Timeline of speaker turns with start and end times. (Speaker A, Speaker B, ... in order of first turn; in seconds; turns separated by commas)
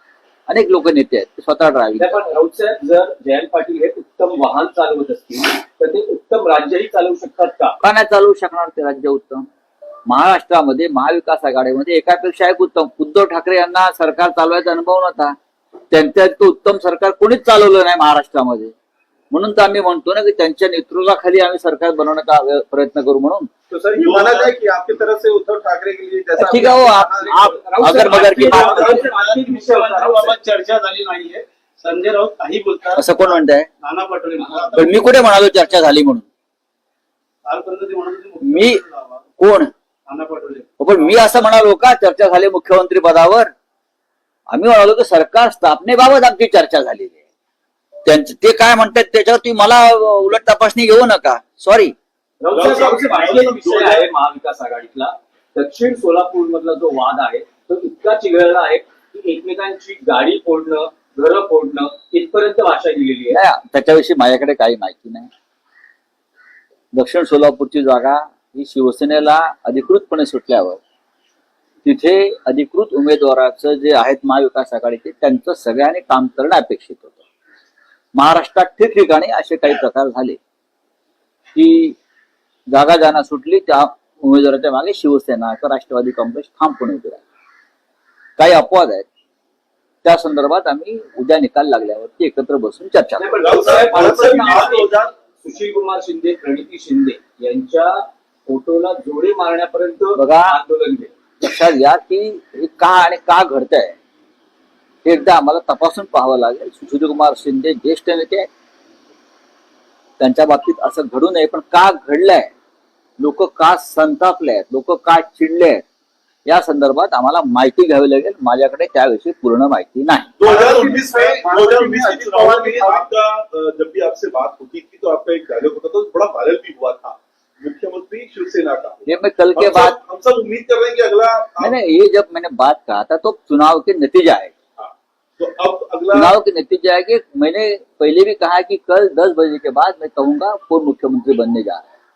Speaker A: 0.5-2.2, Speaker B: 2.0-7.8, Speaker A: 7.8-9.4, Speaker A: 10.1-15.3, Speaker A: 15.9-18.7, Speaker A: 19.3-23.5, Speaker C: 23.7-24.5, Speaker D: 23.9-27.5, Speaker A: 26.4-28.9, Speaker B: 26.4-30.4, Speaker C: 27.9-35.1, Speaker D: 28.4-29.1, Speaker A: 33.0-33.7, Speaker A: 34.7-36.2, Speaker C: 37.4-39.2, Speaker A: 38.4-38.8, Speaker A: 39.4-39.7, Speaker C: 40.1-41.2, Speaker A: 40.8-43.5, Speaker A: 44.5-47.2, Speaker A: 48.0-51.9, Speaker B: 52.4-63.4, Speaker E: 52.5-53.6, Speaker A: 63.3-65.3, Speaker A: 66.9-70.8, Speaker A: 71.8-77.2, Speaker A: 78.1-80.4, Speaker A: 81.5-82.0, Speaker A: 82.7-87.2, Speaker A: 88.4-89.1, Speaker A: 90.0-93.3, Speaker B: 93.2-101.1, Speaker E: 93.4-95.0, Speaker D: 93.4-94.8, Speaker A: 100.2-100.5, Speaker A: 101.4-104.0, Speaker A: 105.0-108.5, Speaker A: 110.2-112.5, Speaker A: 113.2-115.8, Speaker A: 116.5-120.3, Speaker E: 120.4-131.8, Speaker C: 120.4-123.0, Speaker D: 120.5-123.0, Speaker A: 129.1-130.0, Speaker A: 131.6-134.5, Speaker E: 134.8-136.4, Speaker A: 136.1-141.9